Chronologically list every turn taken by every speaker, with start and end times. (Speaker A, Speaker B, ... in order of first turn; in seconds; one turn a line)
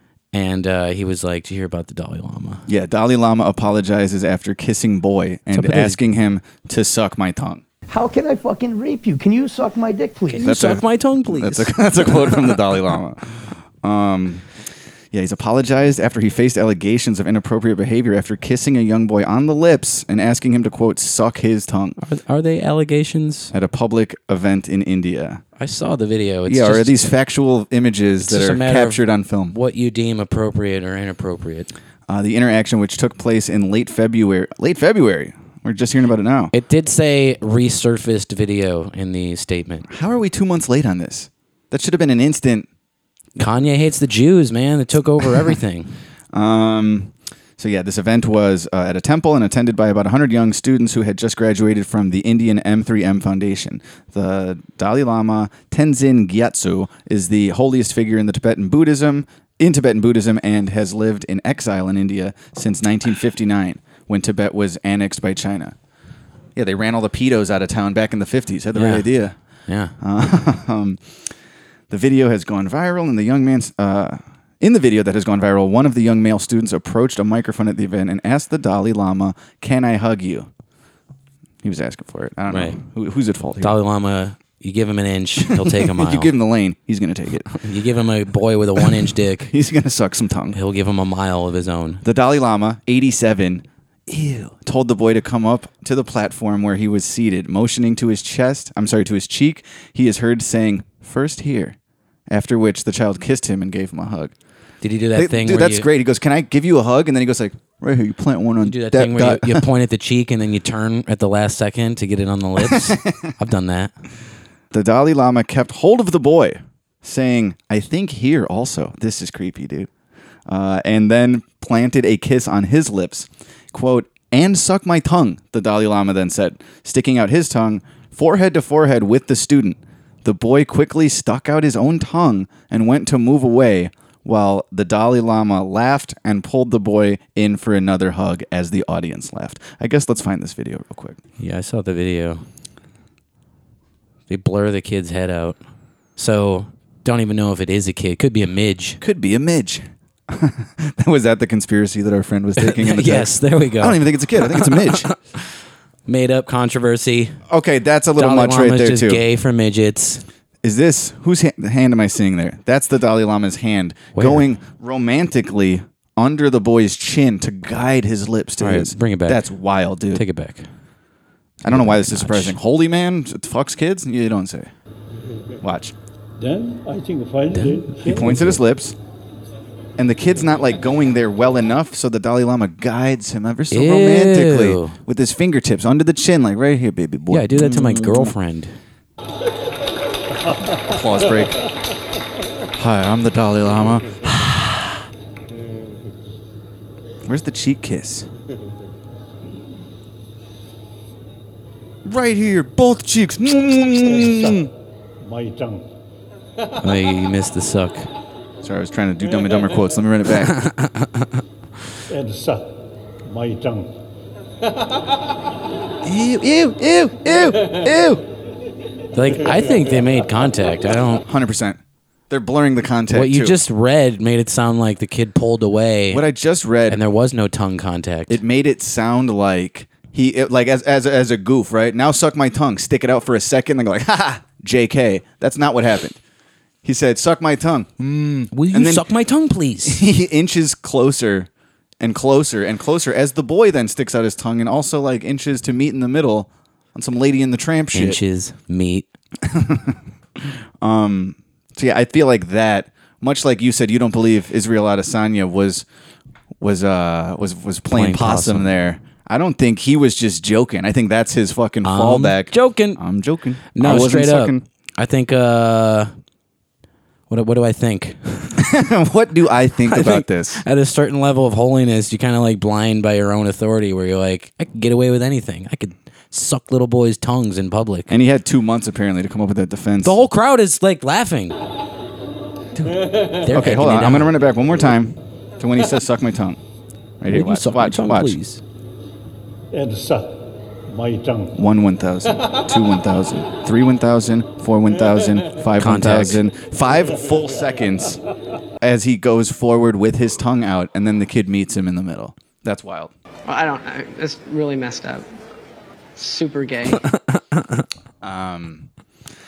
Speaker A: 0.3-2.6
Speaker B: 2.7-7.6
Speaker A: 5.5-6.0
Speaker C: 7.9-10.4
Speaker A: 10.3-12.6
Speaker B: 10.4-13.2
Speaker B: 13.8-14.4
Speaker B: 15.1-22.0
Speaker A: 22.0-23.5
Speaker B: 23.5-25.4
Speaker A: 25.6-27.1
Speaker B: 26.5-29.5
Speaker A: 28.2-31.7
Speaker B: 32.1-36.5
Speaker A: 36.5-39.9
Speaker B: 39.9-42.7
Speaker A: 43.4-45.9
Speaker B: 46.3-65.8
Speaker B: 66.5-69.3
Speaker A: 68.7-69.1
Speaker A: 69.7-69.9
Speaker B: 70.0-71.0
Speaker B: 71.9-80.5
Speaker B: 81.6-83.8
Speaker A: 82.5-82.8
Speaker A: 83.6-86.3
Speaker B: 85.5-87.5
Speaker A: 87.5-89.5
Speaker B: 89.4-90.6
Speaker A: 90.5-92.0
Speaker B: 92.0-101.8
Speaker B: 102.3-104.3
Speaker A: 104.8-105.9
Speaker B: 105.1-109.6
Speaker A: 108.6-113.9
Speaker B: 112.6-113.3
Speaker B: 114.7-119.9
Speaker B: 120.5-141.2
Speaker A: 141.4-142.4
Speaker A: 144.3-145.6
Speaker A: 146.2-149.0
Speaker B: 149.0-155.1
Speaker A: 152.6-155.2
Speaker A: 156.1-157.4
Speaker B: 157.5-159.2
Speaker A: 158.2-160.2
Speaker B: 160.6-170.2
Speaker A: 164.1-164.4
Speaker A: 168.6-169.4
Speaker A: 170.1-170.7
Speaker B: 171.6-174.7
Speaker A: 171.7-172.6
Speaker B: 175.6-175.9
Speaker D: 176.4-178.4
Speaker A: 177.5-178.6
Speaker B: 178.0-178.9
Speaker B: 180.0-188.3
Speaker A: 183.7-184.9
Speaker A: 187.3-188.8
Speaker B: 190.9-191.6
Speaker B: 192.7-195.0
Speaker B: 197.2-198.3
Speaker B: 202.0-204.7
Speaker D: 204.1-204.7
Speaker D: 205.2-205.9
Speaker A: 206.8-208.1
Speaker B: 208.6-210.6
Speaker A: 210.5-211.3
Speaker D: 212.1-213.9
Speaker B: 216.0-218.2
Speaker A: 219.1-221.2
Speaker B: 221.2-223.6
Speaker A: 223.1-226.2
Speaker B: 226.1-227.0
Speaker A: 226.9-228.4
Speaker B: 228.3-236.2
Speaker B: 236.8-239.1
Speaker A: 238.5-240.0
Speaker B: 239.8-241.5
Speaker B: 242.0-248.2
Speaker A: 247.9-249.1
Speaker B: 249.4-255.8
Speaker B: 256.6-264.6
Speaker A: 257.9-258.7
Speaker A: 261.8-263.0
Speaker A: 263.7-266.1
Speaker A: 267.3-268.6
Speaker B: 268.6-270.6
Speaker A: 269.9-278.1
Speaker B: 278.1-280.2
Speaker A: 280.0-281.6
Speaker B: 282.7-286.6
Speaker A: 283.3-284.3
Speaker B: 287.2-288.4
Speaker A: 287.3-288.6
Speaker D: 289.7-291.5
Speaker B: 291.5-298.2
Speaker A: 295.8-296.4
Speaker B: 298.8-303.1
Speaker E: 303.5-305.2
Speaker E: 306.2-307.0
Speaker A: 306.9-307.8
Speaker B: 308.2-308.9